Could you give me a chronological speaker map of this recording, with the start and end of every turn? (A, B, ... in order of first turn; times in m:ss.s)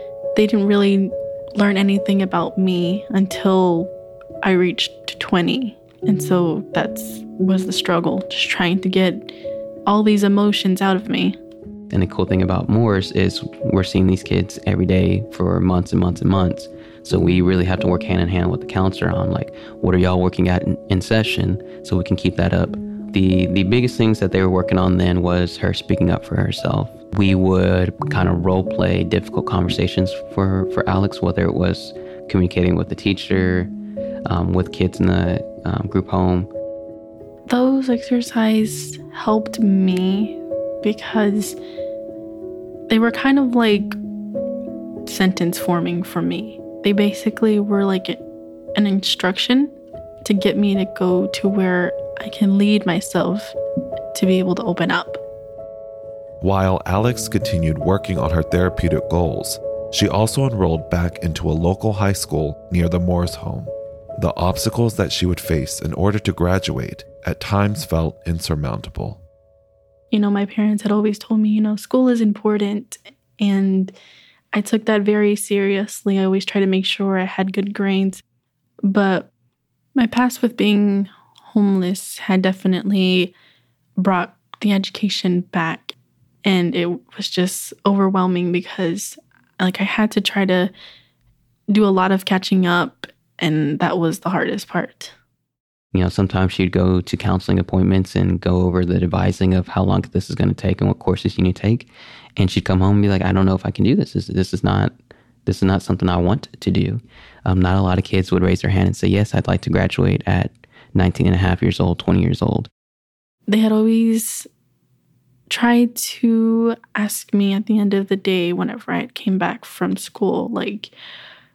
0:00.4-0:09.3 A
0:09.9-0:11.4 A
0:11.9-0:33.7 B
0:34.3-0:36.5 B
0:37.5-0:41.6 A
0:42.9-0:44.0 A
0:45.1-0:48.2 A
0:48.8-0:53.6 A
0:54.1-0:55.2 A
0:56.4-1:09.2 C
1:10.1-1:14.0 A
1:14.5-1:18.2 A
1:18.8-1:19.3 A
1:20.0-1:23.4 A
1:24.0-1:30.7 A
1:31.7-1:35.1 A
1:35.9-1:52.7 B
1:53.5-1:54.5 A
1:55.5-2:01.0 A